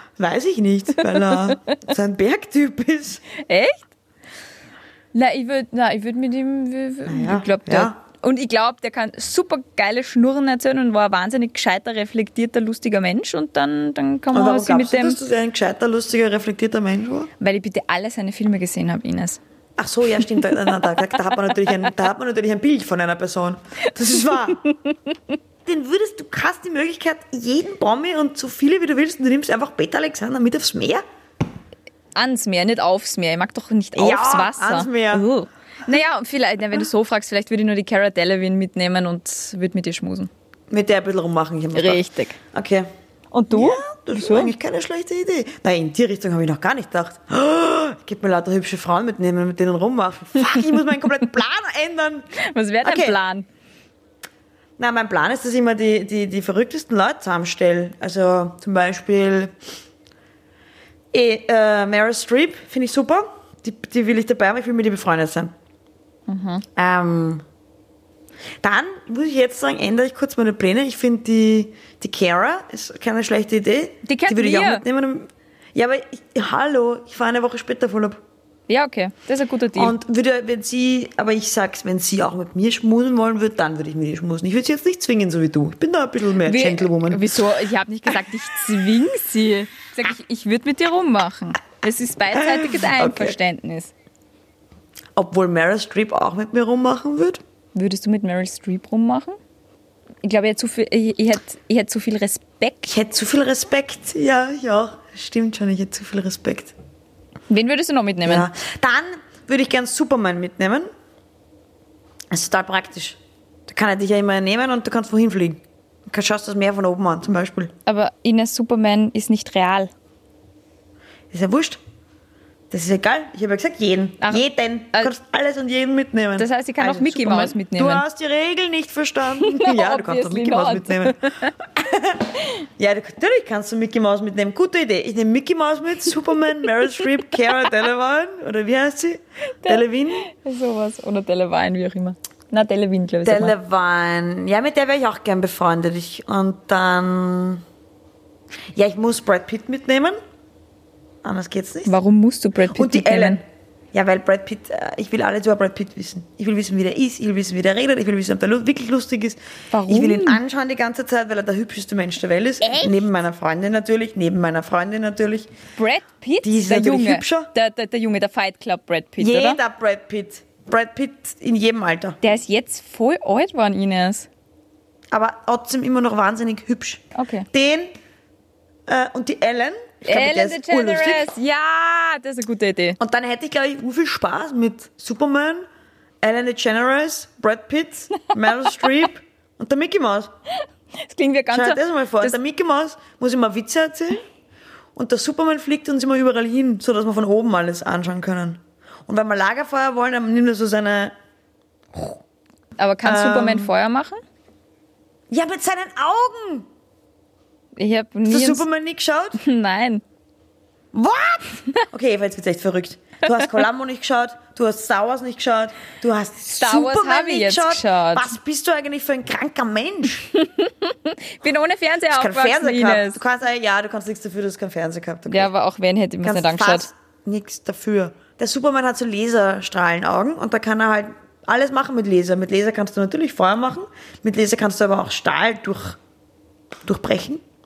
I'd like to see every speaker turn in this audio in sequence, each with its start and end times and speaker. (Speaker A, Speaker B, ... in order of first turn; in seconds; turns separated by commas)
Speaker A: 0.2-3.2, Speaker B: 3.4-3.9, Speaker B: 5.1-15.2, Speaker A: 7.1-8.0, Speaker A: 14.3-17.3, Speaker B: 17.4-19.4, Speaker A: 19.8-24.6, Speaker A: 25.6-31.0, Speaker B: 32.1-40.3, Speaker A: 34.0-35.2, Speaker A: 40.7-42.9, Speaker B: 41.7-42.4, Speaker B: 43.3-44.5, Speaker A: 43.5-52.3, Speaker B: 52.4-53.5, Speaker A: 52.8-53.2, Speaker A: 54.8-59.5, Speaker A: 61.1-65.5, Speaker B: 66.3-66.7, Speaker A: 66.8-67.4, Speaker A: 68.6-78.2, Speaker B: 74.0-74.8, Speaker B: 78.7-80.0, Speaker A: 79.8-87.2, Speaker B: 86.5-93.9, Speaker A: 92.3-93.4, Speaker A: 95.2-97.4, Speaker B: 97.8-99.4, Speaker B: 100.2-102.9, Speaker A: 102.8-106.7, Speaker B: 107.5-108.5, Speaker A: 108.2-110.9, Speaker A: 112.3-117.7, Speaker B: 117.9-119.9, Speaker A: 121.3-121.8, Speaker A: 122.7-140.2, Speaker B: 124.2-125.1, Speaker B: 126.4-128.0, Speaker B: 129.4-131.5, Speaker B: 139.6-143.6, Speaker A: 143.2-147.6, Speaker A: 148.8-150.2, Speaker A: 151.2-151.9, Speaker B: 151.9-153.4, Speaker A: 152.7-153.4, Speaker A: 153.9-165.5, Speaker B: 159.7-160.4, Speaker B: 162.6-162.9, Speaker B: 165.8-169.6, Speaker A: 166.4-167.5, Speaker A: 169.2-172.2, Speaker B: 172.2-174.3, Speaker A: 175.1-177.9, Speaker B: 177.2-177.5, Speaker A: 178.9-181.3, Speaker B: 180.1-183.0, Speaker A: 183.0-185.7, Speaker A: 186.2-190.3, Speaker B: 191.1-192.4, Speaker A: 191.5-194.2, Speaker A: 194.9-201.1, Speaker A: 201.9-202.2, Speaker B: 202.8-204.2, Speaker A: 203.0-203.7, Speaker A: 205.3-206.7, Speaker B: 207.8-208.7, Speaker A: 208.3-209.4, Speaker B: 209.4-210.0, Speaker A: 210.9-220.3, Speaker B: 216.5-218.3, Speaker B: 220.4-223.2, Speaker A: 222.1-225.5, Speaker B: 225.3-226.9, Speaker A: 226.2-236.0, Speaker A: 236.8-237.4